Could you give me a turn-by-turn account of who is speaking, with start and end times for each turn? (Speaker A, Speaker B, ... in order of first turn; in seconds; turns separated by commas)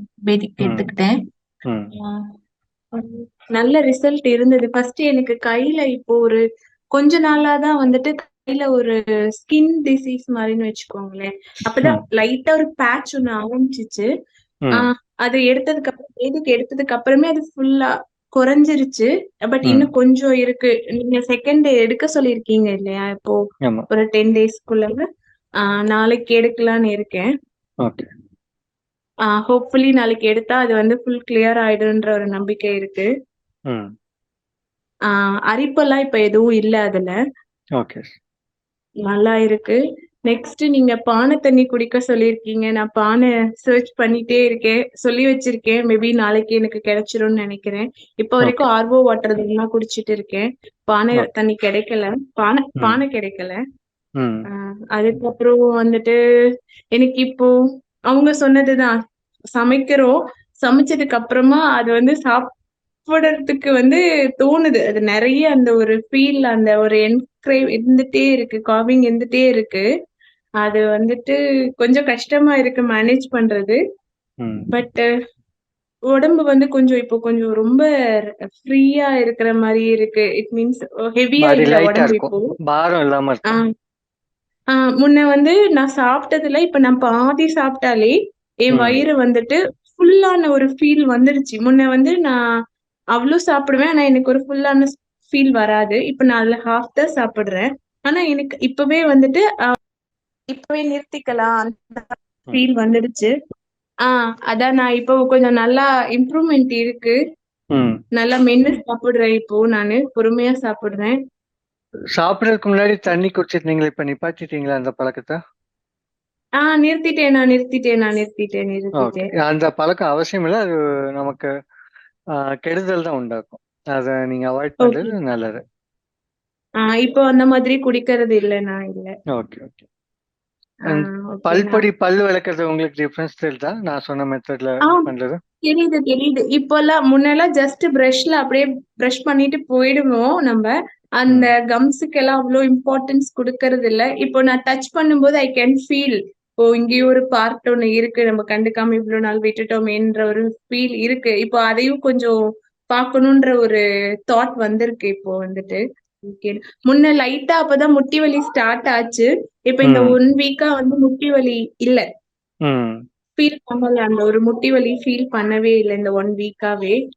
Speaker A: 0.3-1.1, Speaker B: 0.6-0.9, Speaker A: 2.0-2.3, Speaker A: 2.9-6.4, Speaker A: 6.9-14.1, Speaker A: 14.7-23.4, Speaker B: 19.6-19.9, Speaker A: 23.9-25.0, Speaker A: 25.8-27.3, Speaker B: 27.8-28.1, Speaker A: 29.3-33.1, Speaker A: 35.5-37.1, Speaker B: 37.8-38.1, Speaker A: 39.1-53.6, Speaker B: 48.4-48.7, Speaker B: 54.2-54.5, Speaker A: 54.9-56.1, Speaker A: 56.9-57.5, Speaker A: 58.1-59.0, Speaker A: 59.5-62.5, Speaker A: 63.1-69.8, Speaker A: 70.6-73.8, Speaker B: 74.4-74.7, Speaker A: 74.7-75.0, Speaker A: 76.1-77.9, Speaker A: 78.6-82.5, Speaker B: 81.4-83.6, Speaker A: 84.8-92.4, Speaker B: 88.7-89.0, Speaker A: 93.2-99.4, Speaker A: 100.5-103.3, Speaker A: 104.1-107.2, Speaker B: 107.7-108.0, Speaker A: 108.2-111.2, Speaker B: 112.2-115.4, Speaker A: 116.6-119.3, Speaker B: 119.0-121.5, Speaker B: 122.7-125.6, Speaker A: 124.8-125.1, Speaker A: 126.9-129.1, Speaker B: 129.3-129.9, Speaker A: 130.9-131.8, Speaker B: 130.9-135.4, Speaker A: 135.7-152.3, Speaker B: 141.3-141.5, Speaker A: 152.9-162.0, Speaker B: 159.8-160.2, Speaker B: 162.7-163.0, Speaker A: 163.4-166.9